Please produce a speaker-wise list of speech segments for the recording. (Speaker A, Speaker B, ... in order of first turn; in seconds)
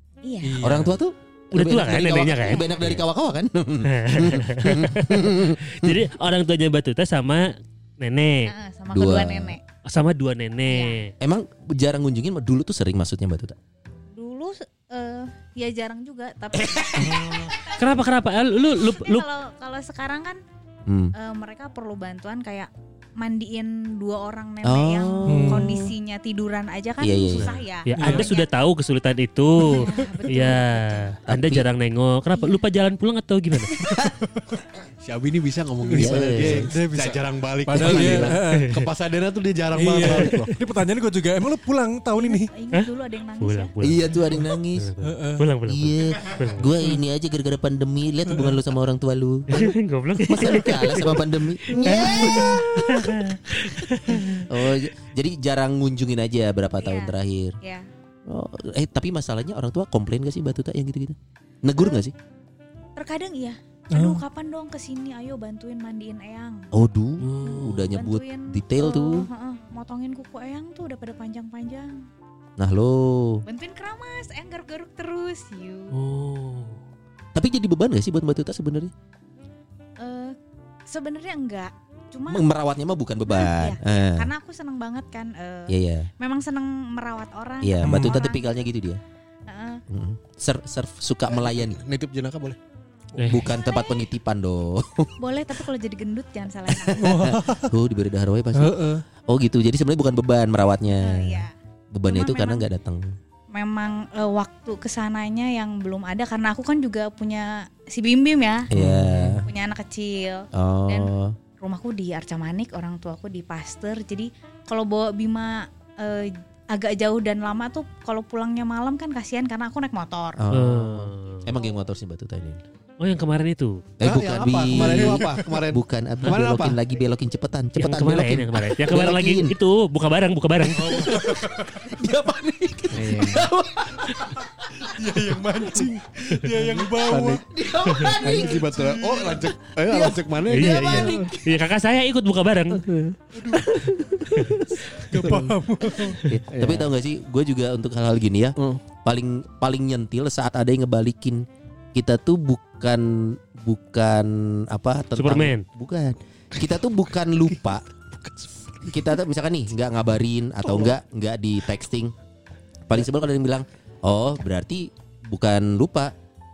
Speaker A: 0.2-0.6, 8.4-9.6, 10.7-11.0, 14.1-17.9, 18.7-20.4, 21.1-28.5, 29.6-31.1, 32.3-32.6, 42.1-43.7, 51.7-52.8, 56.8-57.9, 61.8-62.0, 63.0-66.7, 67.3-72.0, 73.5-76.0, 80.0-80.3, 80.9-82.5, 83.3-88.5, 89.5-89.8, 95.2-97.2, 100.9-101.5, 102.1-102.7, 103.5-108.7, 109.4-120.4
Speaker B: 0.4-1.0, 25.3-25.8, 28.0-28.3, 35.9-38.7, 39.7-42.5, 45.0-45.4, 48.3-48.6, 63.9-64.2, 87.8-88.2, 96.9-97.7, 98.5-99.0, 108.8-109.4, 124.7-125.3, 130.8-131.7, 134.9-137.4, 138.3-138.9, 143.3-143.6, 145.0-146.2
Speaker C: 0.6-6.0, 8.9-9.6, 11.2-13.6, 16.6-17.6, 20.9-21.1, 24.6-25.9, 27.0-27.6, 31.3-31.6, 33.8-34.1, 36.0-36.7, 43.8-44.9, 45.7-49.5, 50.3-53.1, 54.4-57.6, 58.3-62.1, 66.7-69.3, 72.6-73.4, 77.3-78.9, 82.2-84.3, 85.7-86.1, 87.6-89.0, 89.9-91.8, 93.3-95.1, 96.8-103.1, 108.7-109.4, 110.5-111.3, 120.4-122.6, 124.0-129.5, 130.8-134.9, 137.1-141.5, 144.1-144.5, 146.2-151.4, 151.9-157.8, 158.8-162.1, 162.9-166.1
Speaker D: 1.5-3.0, 3.9-8.5, 9.8-11.1, 17.8-19.2, 27.4-33.7, 38.0-38.9, 40.0-40.3, 43.4-46.7, 49.5-51.2, 51.8-54.5, 67.2-67.7, 75.9-76.8, 93.2-93.5, 120.5-121.5, 123.0-123.9, 127.8-131.1, 140.5-142.8, 155.2-155.6
Speaker E: 35.0-40.5, 91.3-92.6, 124.0-126.8, 132.9-133.5, 137.1-137.4, 138.1-141.3, 142.7-143.6, 145.1-145.6, 146.5-146.9, 158.1-158.7, 160.6-160.9